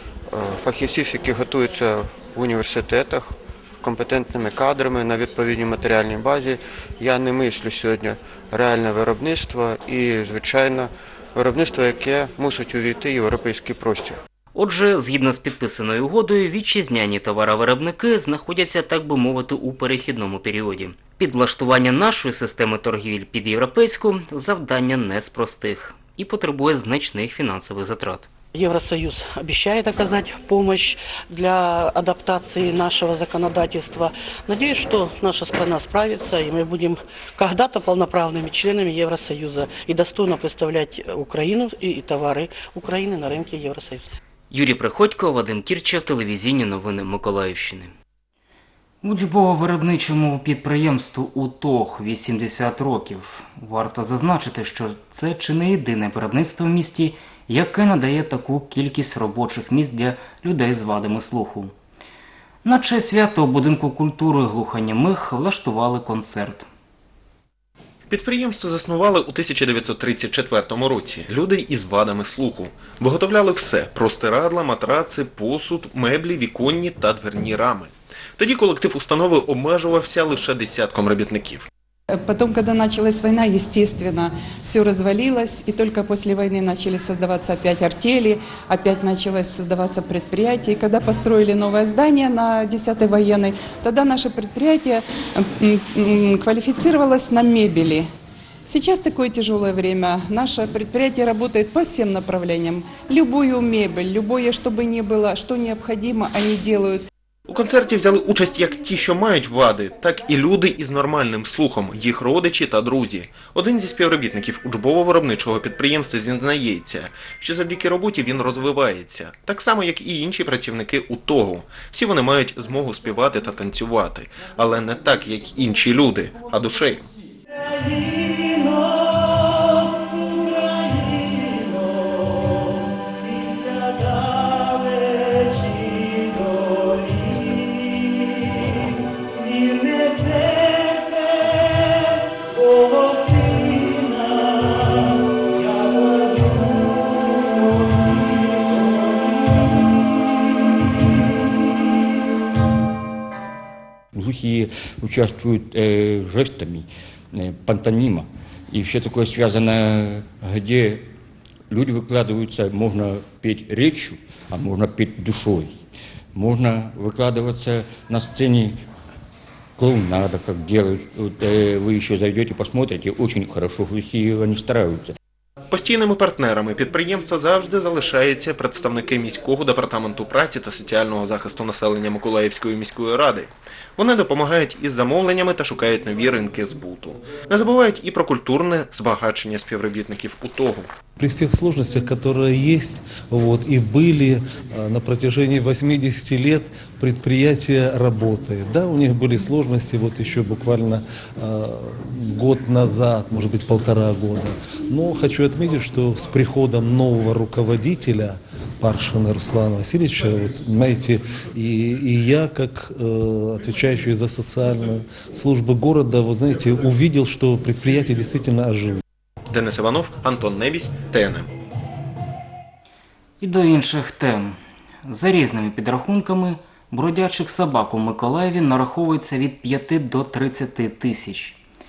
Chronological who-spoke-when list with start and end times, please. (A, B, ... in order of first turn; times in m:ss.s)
0:00.3-0:14.2 A
0:14.5-0:28.3 B
0:28.5-0:44.1 C
0:44.5-0:47.9 B
0:49.0-1:01.7 B
1:02.6-1:06.7 B
1:08.1-1:21.7 D
1:22.1-1:38.1 E
1:38.7-1:47.0 E
1:47.5-2:07.0 D
2:34.1-2:41.1 F
2:41.7-2:48.8 F
2:49.8-2:55.2 F
2:55.7-3:10.9 D
3:11.2-3:39.0 G
3:39.5-3:41.5 D
3:43.4-3:51.6 B